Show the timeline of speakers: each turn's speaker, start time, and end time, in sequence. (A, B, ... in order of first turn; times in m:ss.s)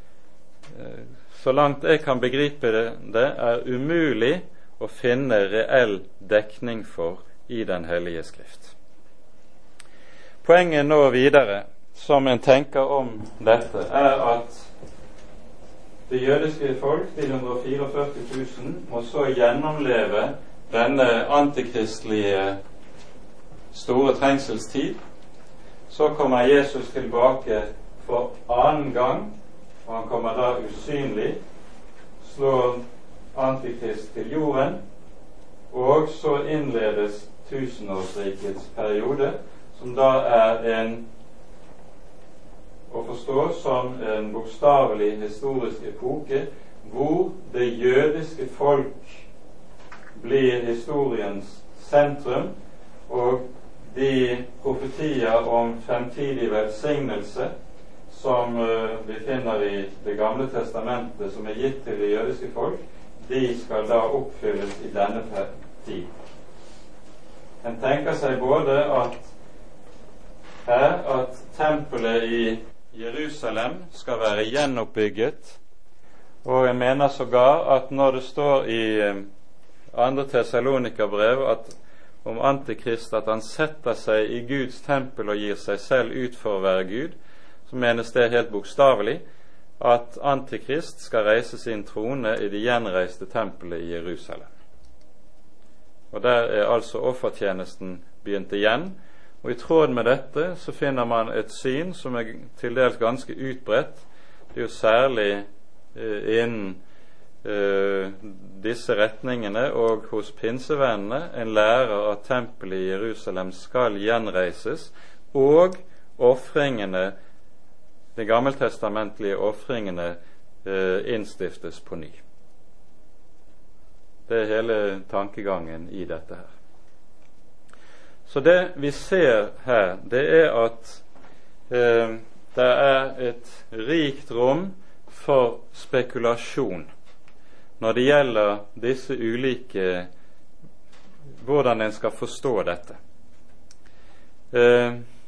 0:00.8-0:08.7 A
0:10.4-0:14.7 A
0:16.1-0:22.6 A
0:23.7-0:25.0 A
0:25.9-0:31.4 A
0:32.2-0:32.8 A
0:33.3-0:34.8 A
0:35.7-0:41.0 A
0:42.9-0:49.3 A
0:50.1-0:52.5 A
0:53.1-0:57.5 A
0:58.1-1:06.1 A
1:07.6-1:09.3 A
1:10.6-1:15.6 A
1:16.4-1:19.3 A
1:19.9-1:27.2 A
1:27.7-1:29.2 A
1:29.8-1:34.5 A
1:36.1-1:46.8 A
1:47.4-1:57.1 A
1:58.2-2:02.2 A
2:04.3-2:06.5 A
2:08.3-2:11.0 A
2:11.7-2:16.9 A
2:17.8-2:20.1 A
2:21.4-2:23.0 A
2:24.5-2:25.0 A